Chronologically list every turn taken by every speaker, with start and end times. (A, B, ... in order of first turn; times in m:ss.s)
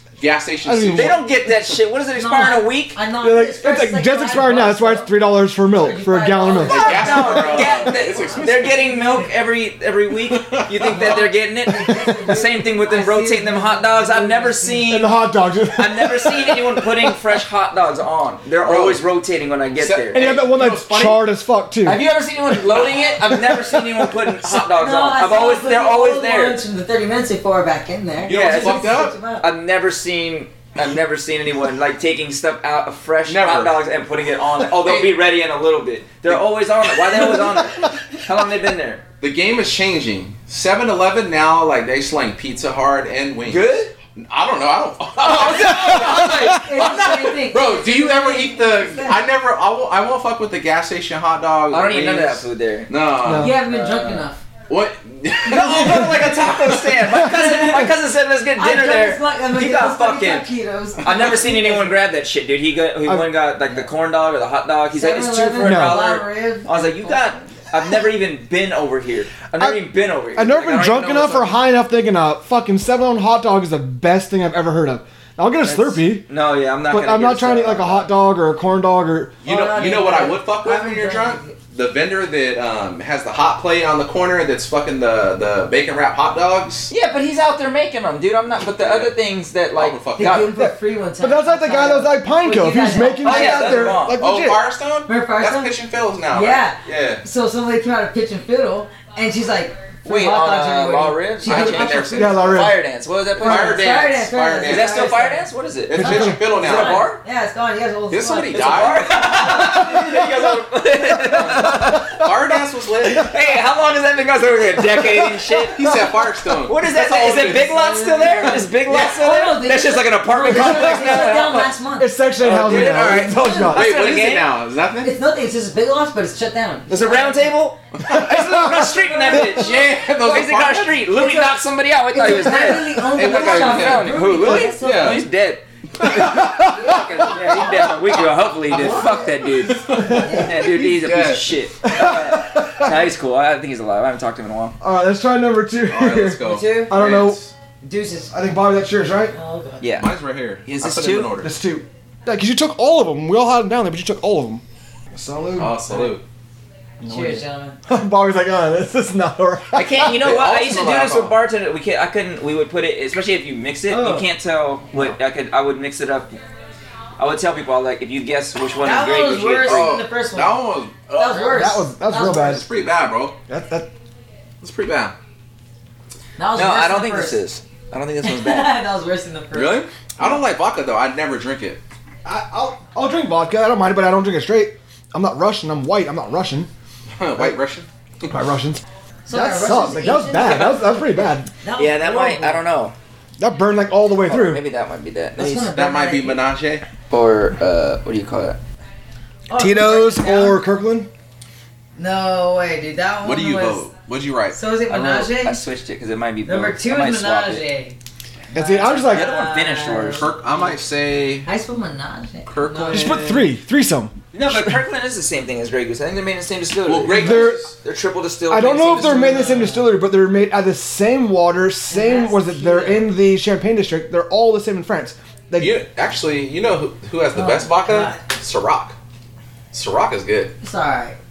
0:00.2-0:01.2 A
0:00.6-0:01.2 B
0:00.9-0:03.0 C
0:02.2-0:05.1 D
0:03.2-0:07.0 B
0:05.8-0:09.3 D
0:06.6-0:09.0 A
0:06.7-0:15.2 C
0:10.2-0:11.3 A
0:10.9-0:14.9 D
0:14.9-0:17.2 B
0:15.7-0:20.3 C
0:18.6-0:19.0 A
0:19.8-0:21.2 A
0:20.1-0:22.0 B
0:21.8-0:26.6 C
0:24.7-0:29.5 D
0:28.2-0:29.2 A
0:28.2-0:39.0 C
0:33.3-0:33.8 A
0:34.7-0:35.2 A
0:39.2-0:53.6 A
0:43.4-0:43.9 C
0:45.2-0:46.9 C
0:46.4-0:49.2 D
0:51.7-0:52.9 C
0:53.2-0:53.6 B
0:53.3-0:54.4 D
0:53.7-0:54.2 C
0:54.7-0:57.0 A
0:55.4-1:00.5 C
0:57.2-0:58.0 D
0:58.6-1:01.9 D
1:01.0-1:11.6 C
1:04.9-1:07.4 D
1:05.6-1:06.0 B
1:09.6-1:09.8 B
1:10.4-1:16.3 B
1:15.6-1:18.1 C
1:16.9-1:19.4 B
1:19.4-1:26.9 A
1:19.4-1:21.6 D
1:26.9-1:30.5 C
1:28.8-1:29.1 A
1:29.7-1:30.5 A
1:30.2-1:34.0 D
1:30.6-1:34.6 B
1:33.2-1:34.2 C
1:34.2-1:37.2 A
1:35.1-1:35.7 D
1:36.3-1:42.4 D
1:40.0-1:43.8 C
1:41.5-1:42.7 A
1:42.2-1:42.8 B
1:43.4-1:45.5 D
1:43.4-1:45.1 A
1:44.6-1:47.2 C
1:45.9-1:47.1 A
1:46.0-1:46.4 B
1:46.0-1:50.3 D
1:48.1-1:49.1 A
1:48.5-1:52.3 C
1:51.3-1:52.2 B
1:52.2-1:53.3 A
1:53.0-1:56.0 C
1:55.7-1:57.9 A
1:56.7-2:01.7 C
1:57.5-2:02.1 D
2:00.5-2:00.9 B
2:02.0-2:03.9 B
2:02.4-2:04.6 C
2:02.4-2:05.1 A
2:03.3-2:03.8 D
2:05.0-2:07.6 D
2:06.9-2:24.8 C
2:08.1-2:08.4 A
2:08.1-2:08.9 B
2:09.0-2:09.6 D
2:09.3-2:11.1 A
2:11.1-2:11.6 D
2:12.1-2:15.2 D
2:13.1-2:15.2 A
2:16.0-2:21.6 A
2:16.2-2:16.6 B
2:16.8-2:17.7 D
2:18.7-2:19.3 D
2:20.0-2:20.2 B
2:20.0-2:20.8 D
2:21.8-2:23.0 B
2:24.8-2:27.4 B
2:25.9-2:27.5 A
2:26.4-2:27.0 D
2:27.8-2:28.3 D
2:28.3-2:29.4 B
2:29.3-2:29.9 D
2:29.8-2:30.1 C
2:30.0-2:31.5 A
2:30.7-2:31.3 C
2:31.4-2:34.6 B
2:35.1-2:36.0 B
2:35.6-2:36.2 A
2:37.0-2:40.3 B
2:37.1-2:37.8 D
2:39.7-2:46.4 C
2:40.2-2:41.4 A
2:43.9-2:44.3 D
2:47.2-2:50.0 C
2:48.8-2:52.6 D
2:49.6-2:53.4 A
2:51.3-2:52.7 B
2:53.5-2:53.9 B
2:54.6-2:55.2 A
2:56.4-2:57.4 D
2:56.6-2:58.8 C
2:58.2-2:59.8 D
2:59.5-3:01.8 A
3:02.2-3:06.7 B
3:07.2-3:08.4 A
3:08.3-3:11.5 B
3:09.3-3:10.8 D
3:11.6-3:12.6 D
3:11.8-3:12.9 C
3:13.4-3:14.6 B
3:14.2-3:15.7 C
3:15.4-3:16.4 D
3:15.6-3:16.9 A
3:17.1-3:18.6 C
3:19.5-3:20.6 D
3:19.6-3:21.1 B
3:22.0-3:23.8 D
3:23.2-3:24.6 A
3:24.5-3:25.6 D
3:24.9-3:27.6 C
3:26.4-3:28.0 D
3:28.5-3:29.3 B
3:28.5-3:30.7 D
3:28.9-3:30.3 C
3:30.1-3:31.5 A
3:31.5-3:33.3 D
3:32.5-3:33.4 A
3:32.9-3:34.6 B
3:34.3-3:39.6 C
3:36.8-3:37.7 A
3:37.1-3:37.7 B
3:38.5-3:45.8 B
3:39.0-3:39.9 D
3:41.9-3:43.1 D
3:45.6-3:49.0 A
3:47.4-3:48.2 D
3:49.7-3:50.5 A
3:50.6-3:51.2 D